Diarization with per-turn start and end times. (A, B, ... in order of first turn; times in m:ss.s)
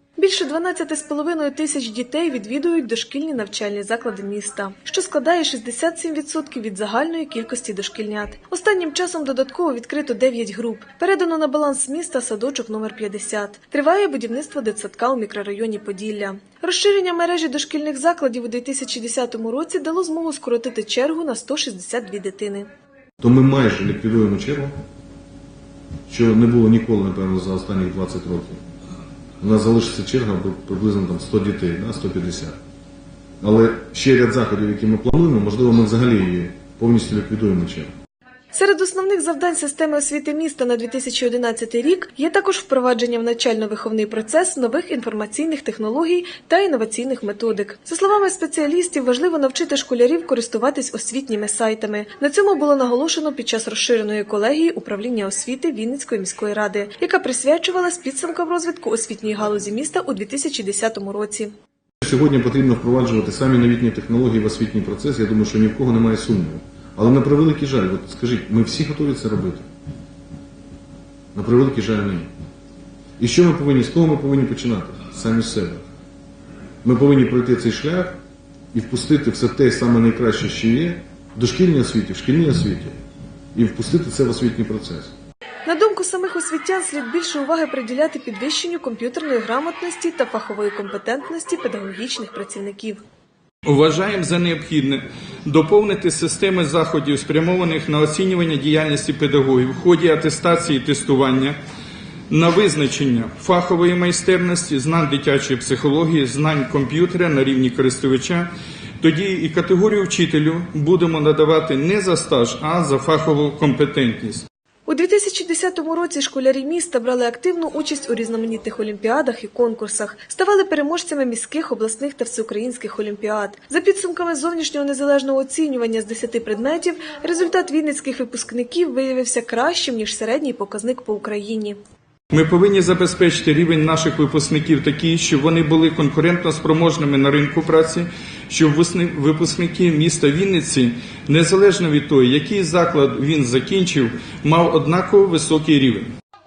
0:00.2-0:22.7 A
0:23.2-0:24.8 B
0:26.1-0:28.6 B
0:29.4-0:32.6 B
0:33.4-0:37.9 B
0:38.5-1:01.5 A
1:02.0-1:09.7 B
1:11.3-1:12.3 B
1:13.2-1:15.8 B
1:16.8-1:18.2 B
1:18.7-1:23.0 B
1:23.5-1:25.1 B
1:25.6-1:33.0 A
1:33.6-1:41.6 C
1:42.3-1:48.5 C
1:49.0-1:54.5 C
1:54.9-2:11.8 A
2:12.3-2:26.1 C